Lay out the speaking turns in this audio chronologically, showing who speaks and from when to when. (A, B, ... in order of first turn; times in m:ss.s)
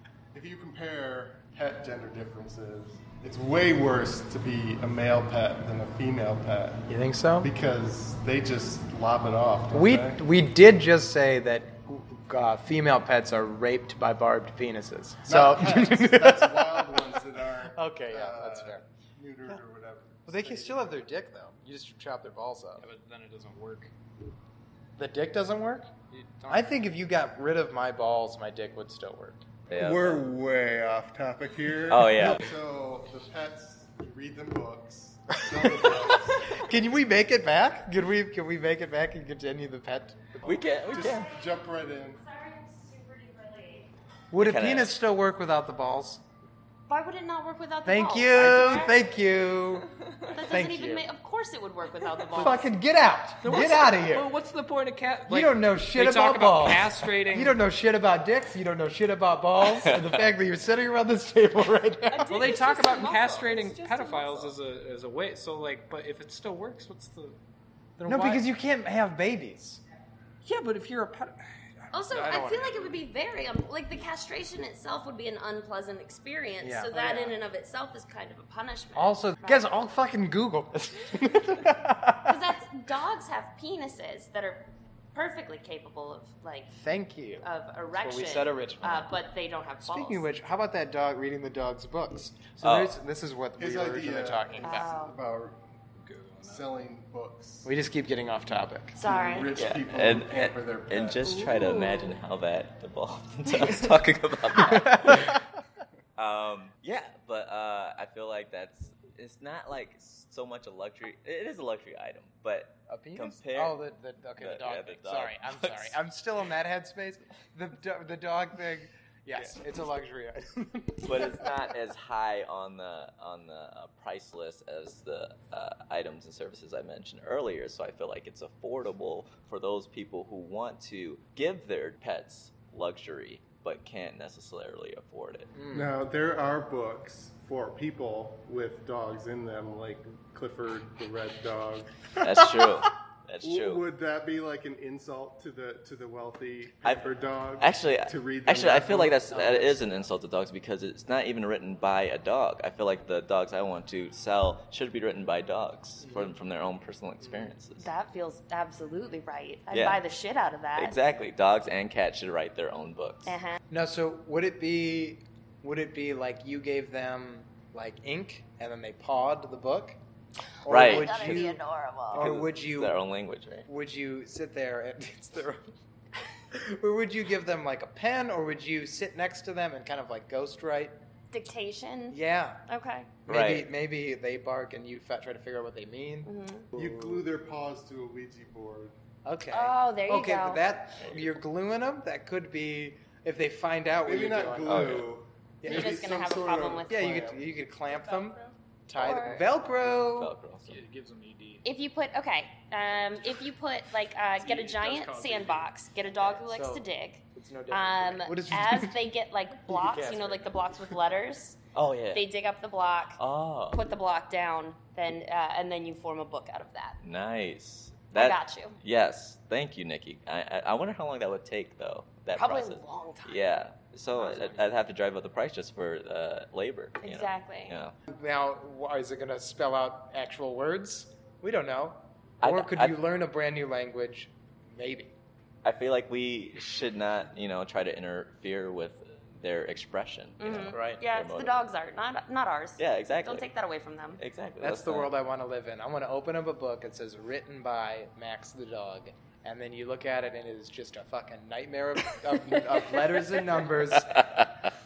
0:00.3-0:10.2 A
0:06.9-0:07.5 B
0:09.7-0:18.8 B
0:15.2-0:20.9 A
0:20.3-0:22.8 B
0:22.8-0:23.9 C
0:25.0-0:25.9 B
0:26.1-0:26.7 C
0:26.5-0:29.4 B
0:29.7-0:30.3 D
0:29.7-0:36.6 A
0:31.9-0:32.4 D
0:36.3-0:40.2 B
0:40.4-0:41.3 D
0:40.9-0:42.2 A
0:42.2-0:43.9 E
0:44.3-0:46.2 B
0:44.4-0:44.9 D
0:46.9-0:49.0 E
0:47.8-0:51.0 B
0:50.2-0:52.7 E
0:52.3-0:54.3 B
0:53.4-0:57.6 C
0:55.3-1:02.4 B
1:02.1-1:04.5 E
1:02.3-1:07.4 C
1:08.0-1:08.4 C
1:08.0-1:09.8 B
1:10.4-1:13.0 C
1:11.9-1:19.8 E
1:16.6-1:17.4 B
1:18.9-1:22.4 B
1:22.2-1:26.7 E
1:26.7-1:29.1 B
1:27.4-1:30.3 E
1:29.8-1:34.9 B
1:32.6-1:33.0 D
1:33.6-1:35.6 A
1:34.6-1:35.2 E
1:36.0-1:36.7 C
1:36.4-1:37.7 A
1:37.6-1:39.0 B
1:38.9-1:39.6 E
1:39.0-1:41.2 A
1:39.5-1:45.4 D
1:41.3-1:42.1 E
1:44.6-1:45.4 B
1:46.2-1:53.8 D
1:52.9-2:01.7 B
1:54.4-1:56.0 D
2:01.0-2:15.5 D
2:15.5-2:15.9 B
2:15.7-2:22.0 A
2:22.2-2:23.8 D
2:23.4-2:29.4 A
2:26.8-2:37.9 D
2:29.4-2:29.9 B
2:36.0-2:36.4 B
2:37.2-2:37.5 B
2:37.8-2:41.0 E
2:39.7-2:40.0 D
2:40.7-2:43.4 D
2:43.2-2:43.6 E
2:43.7-2:50.0 B
2:50.6-2:53.0 B
2:50.6-2:52.3 E
2:50.7-2:51.6 D
2:52.1-2:53.7 D
2:53.6-2:55.7 B
2:56.5-3:00.9 B
3:01.3-3:03.1 E
3:02.1-3:02.6 B
3:03.2-3:03.7 D
3:03.2-3:07.3 B
3:06.2-3:06.7 E
3:06.7-3:08.9 A
3:09.2-3:15.0 B
3:09.5-3:10.6 E
3:14.0-3:17.4 A
3:14.6-3:15.1 D
3:15.6-3:16.0 B
3:15.6-3:17.0 E
3:16.9-3:20.3 B
3:17.8-3:18.5 C
3:19.0-3:19.5 E
3:19.8-3:20.8 D
3:20.6-3:21.6 C
3:21.6-3:31.6 E
3:24.3-3:25.7 C
3:26.3-3:29.0 B
3:29.6-3:31.0 B
3:31.7-3:32.2 D
3:32.1-3:37.0 E
3:33.2-3:33.9 D
3:37.0-3:47.9 D
3:38.1-3:38.8 E
3:42.3-3:43.4 E
3:47.0-3:47.8 E
3:48.1-3:55.1 B
3:52.4-3:53.0 D
3:55.6-4:01.6 D
4:00.4-4:04.2 E
4:00.7-4:01.0 B
4:02.8-4:03.5 D
4:04.2-4:05.1 D
4:04.6-4:14.2 B
4:14.2-4:14.4 D